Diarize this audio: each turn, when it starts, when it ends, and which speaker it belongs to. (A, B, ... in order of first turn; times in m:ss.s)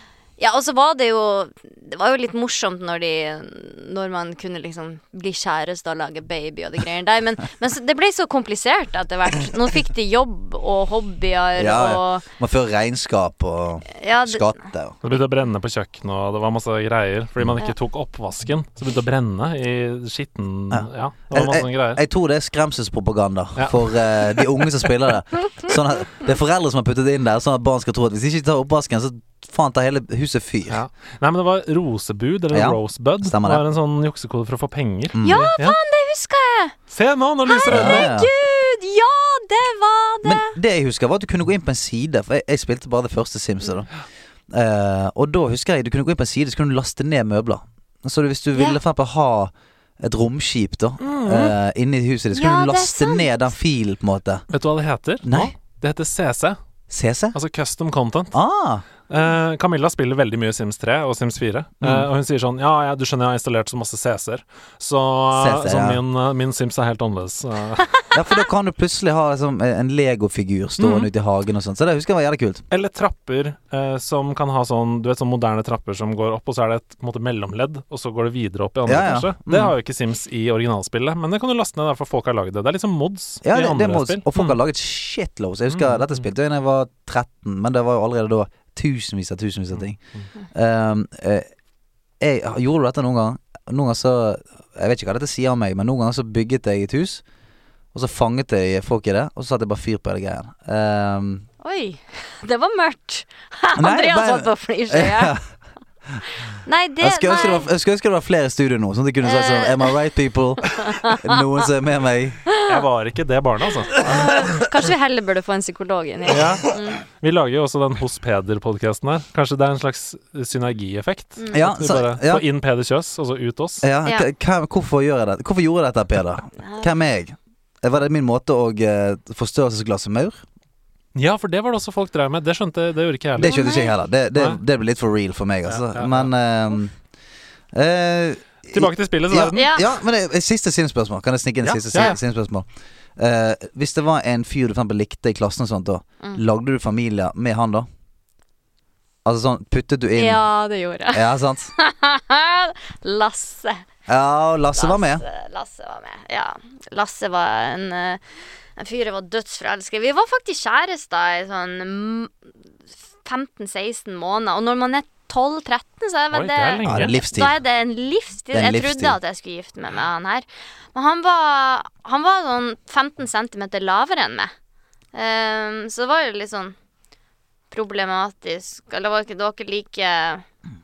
0:00.4-0:12.2 A
0:11.6-0:15.0 B
0:14.0-0:14.6 A
0:15.0-0:22.0 C
0:20.7-0:30.8 B
0:23.6-0:23.9 C
0:30.7-0:35.8 C
0:32.5-0:33.6 B
0:35.1-0:35.5 B
0:35.2-0:36.8 A
0:36.9-0:38.1 C
0:37.4-0:40.5 A
0:37.7-0:38.3 B
0:40.2-0:43.9 B
0:44.5-0:54.4 B
0:48.5-0:48.8 A
0:51.0-0:51.5 C
0:52.3-0:53.5 A
0:54.5-0:56.6 C
0:55.2-0:55.5 B
0:56.9-0:57.4 B
0:57.3-0:58.4 C
0:58.3-0:58.8 B
0:59.1-1:07.9 C
1:01.8-1:02.1 B
1:05.3-1:06.0 B
1:08.1-1:12.6 B
1:10.8-1:11.1 C
1:12.7-1:24.6 C
1:18.8-1:19.7 B
1:23.4-1:30.0 B
1:25.7-1:26.2 C
1:29.7-1:30.3 C
1:30.5-1:31.4 B
1:32.2-1:37.2 B
1:37.9-1:41.4 B
1:41.6-1:45.3 A
1:43.8-1:45.4 B
1:46.6-1:47.7 A
1:47.0-1:52.4 B
1:49.2-1:49.9 A
1:50.7-1:51.6 A
1:52.6-1:53.9 C
1:53.9-1:57.0 A
1:56.3-2:03.8 C
2:01.4-2:01.6 A
2:01.5-2:02.4 B
2:03.8-2:10.4 B
2:06.6-2:06.9 A
2:11.1-2:13.5 C
2:13.4-2:16.9 B
2:13.4-2:14.0 A
2:15.7-2:16.3 C
2:17.7-2:27.9 B
2:18.7-2:19.6 C
2:19.5-2:19.9 A
2:21.6-2:22.1 C
2:29.2-2:30.4 B
2:30.1-2:33.8 A
2:31.1-2:31.7 B
2:34.1-2:35.2 B
2:34.7-2:38.2 A
2:38.8-2:42.3 A
2:43.2-2:54.5 A
2:46.3-2:47.1 C
2:46.8-2:47.5 B
2:48.5-2:49.2 B
2:55.1-2:56.7 A
2:57.7-3:00.4 A